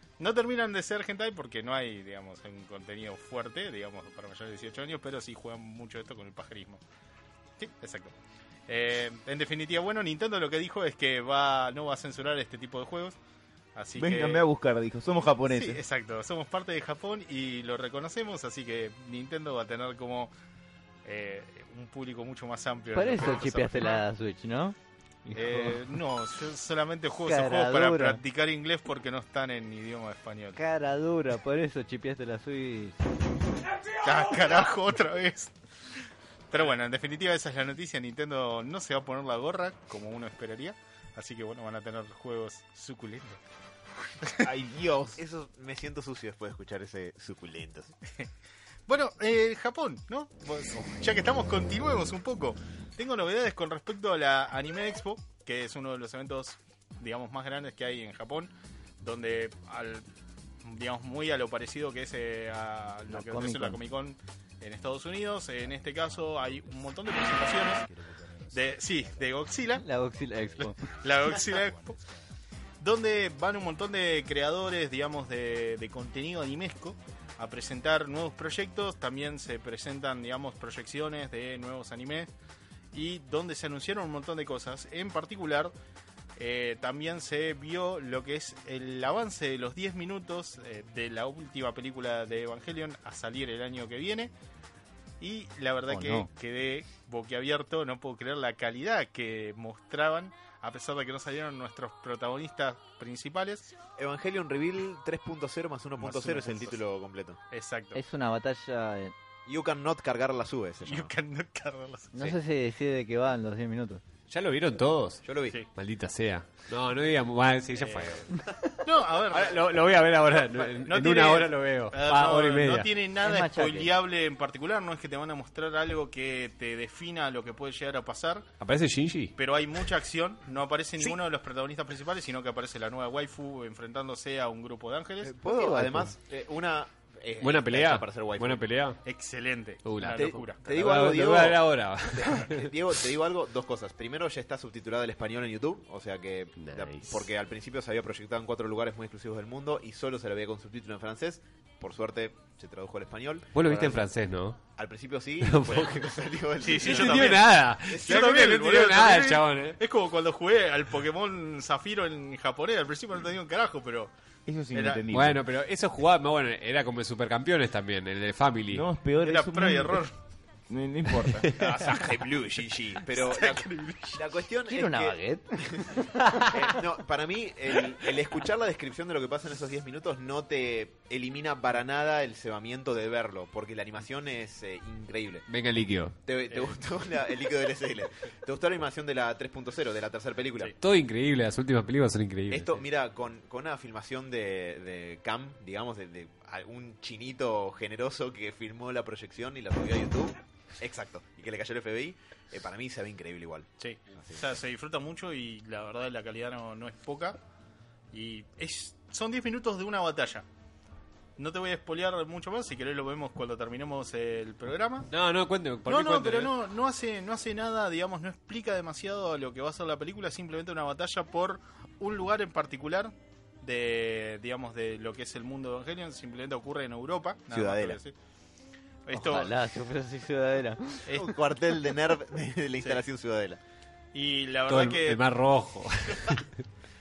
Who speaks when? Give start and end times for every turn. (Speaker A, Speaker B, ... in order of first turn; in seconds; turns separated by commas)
Speaker A: 0.2-6.8, Speaker A: 7.6-8.1, Speaker A: 8.7-13.2, Speaker A: 13.7-14.4, Speaker B: 13.9-15.8, Speaker A: 15.5-20.3, Speaker A: 21.0-24.0, Speaker C: 22.9-25.9, Speaker A: 25.3-30.6, Speaker C: 27.2-28.2, Speaker C: 30.6-33.0, Speaker A: 34.0-35.5, Speaker A: 36.5-43.4, Speaker B: 44.4-45.2, Speaker D: 45.2-47.9, Speaker A: 48.9-60.0, Speaker A: 60.6-67.9, Speaker C: 63.1-63.8, Speaker A: 68.5-69.8, Speaker C: 69.8-70.8, Speaker A: 71.0-72.0, Speaker A: 72.8-82.3, Speaker A: 82.9-85.7, Speaker A: 86.4-94.3, Speaker A: 95.2-103.7, Speaker C: 95.9-96.3, Speaker D: 104.0-107.4, Speaker A: 106.0-106.8, Speaker A: 107.5-108.0, Speaker C: 107.9-109.1, Speaker D: 109.5-111.1, Speaker A: 110.8-112.1, Speaker C: 112.1-114.0, Speaker E: 114.3-115.2, Speaker D: 115.2-115.6, Speaker E: 115.7-118.3, Speaker A: 117.8-118.2, Speaker A: 118.8-119.7, Speaker E: 119.3-122.9, Speaker A: 120.3-128.5, Speaker C: 123.2-123.9, Speaker E: 128.6-129.3, Speaker A: 129.4-135.3, Speaker D: 135.2-138.7, Speaker C: 135.4-136.1, Speaker E: 137.4-139.0, Speaker A: 139.0-140.6, Speaker E: 139.8-142.7, Speaker D: 140.0-154.0, Speaker E: 146.6-147.2, Speaker E: 153.5-154.6, Speaker D: 154.8-158.8, Speaker E: 155.4-156.2, Speaker A: 156.6-157.5, Speaker E: 156.7-159.8, Speaker A: 158.0-164.1, Speaker B: 164.4-165.4, Speaker A: 164.7-165.0, Speaker E: 165.1-168.9, Speaker B: 168.7-170.1, Speaker A: 169.2-170.1, Speaker B: 170.7-171.5, Speaker E: 171.3-171.8, Speaker D: 171.6-185.5, Speaker A: 171.6-172.0, Speaker A: 173.1-174.2, Speaker C: 174.7-176.5, Speaker E: 185.5-186.2, Speaker D: 186.2-190.7, Speaker E: 190.8-192.8, Speaker D: 192.5-204.4, Speaker A: 203.8-207.4, Speaker A: 208.1-210.4, Speaker A: 211.4-215.1, Speaker E: 215.1-216.5, Speaker A: 215.8-228.1, Speaker D: 227.5-228.0, Speaker A: 229.1-229.5, Speaker C: 229.1-231.1, Speaker A: 231.1-231.3, Speaker D: 231.1-233.6, Speaker A: 234.1-235.2, Speaker E: 234.7-236.6